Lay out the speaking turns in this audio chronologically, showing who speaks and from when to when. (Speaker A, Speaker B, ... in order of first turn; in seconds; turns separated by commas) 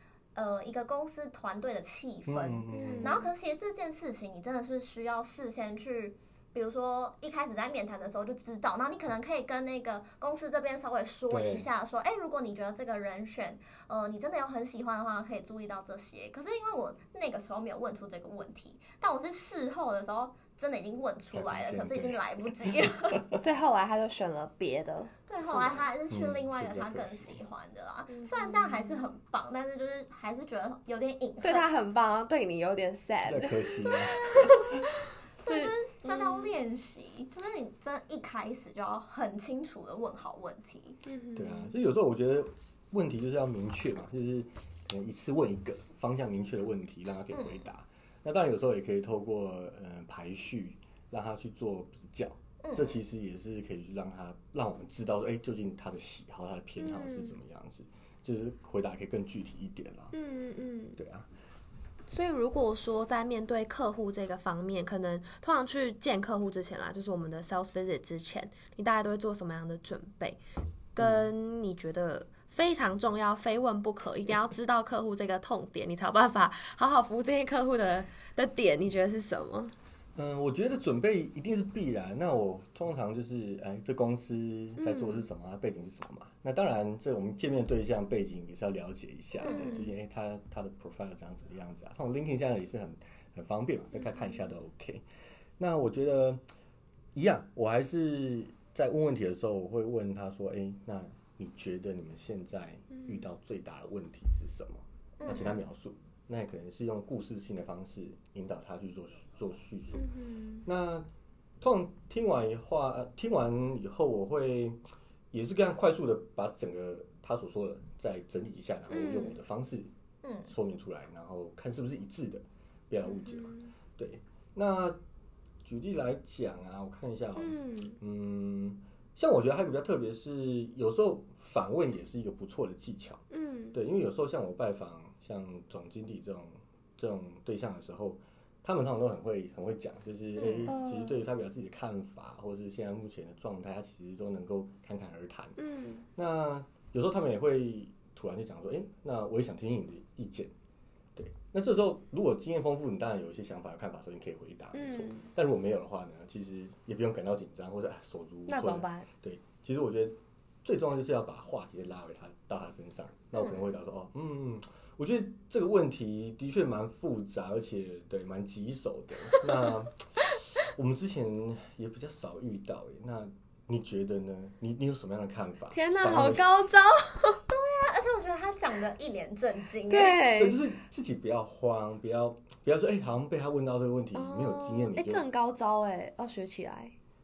Speaker A: 0.3-23.2, Speaker B: 2.3-3.2, Speaker C: 2.7-3.3, Speaker B: 11.3-11.7, Speaker B: 21.3-22.8, Speaker C: 23.3-25.9, Speaker A: 25.3-31.7, Speaker B: 26.1-27.4, Speaker C: 28.1-29.0, Speaker C: 31.4-34.7, Speaker B: 33.2-34.4, Speaker A: 35.4-41.0, Speaker C: 35.4-36.5, Speaker C: 41.1-41.8, Speaker B: 41.4-60.1, Speaker A: 47.3-47.6, Speaker A: 52.6-53.0, Speaker C: 56.8-57.4, Speaker C: 60.1-61.0, Speaker B: 61.0-61.3, Speaker C: 62.1-70.4, Speaker C: 71.0-79.7, Speaker B: 71.0-71.3, Speaker B: 80.2-95.0, Speaker C: 84.8-85.3, Speaker A: 89.4-89.9, Speaker C: 89.5-89.8, Speaker C: 94.0-94.4, Speaker B: 95.6-96.4, Speaker B: 97.2-110.1, Speaker C: 102.9-103.3, Speaker A: 105.2-105.6, Speaker C: 105.3-105.5, Speaker C: 109.9-110.7, Speaker B: 110.7-111.1, Speaker B: 111.6-114.8, Speaker B: 115.3-119.9, Speaker C: 118.9-119.4, Speaker A: 120.2-120.5, Speaker B: 120.5-125.0, Speaker C: 123.0-123.7, Speaker B: 125.7-145.6, Speaker C: 127.4-128.0, Speaker C: 133.3-133.8, Speaker A: 140.4-140.7, Speaker C: 140.7-141.2, Speaker C: 145.6-146.0, Speaker B: 146.2-150.5, Speaker B: 151.2-176.5, Speaker C: 154.7-155.3, Speaker C: 158.5-159.1, Speaker C: 175.7-177.4, Speaker A: 177.5-180.3, Speaker C: 179.9-180.6, Speaker B: 180.3-185.2, Speaker C: 184.1-186.9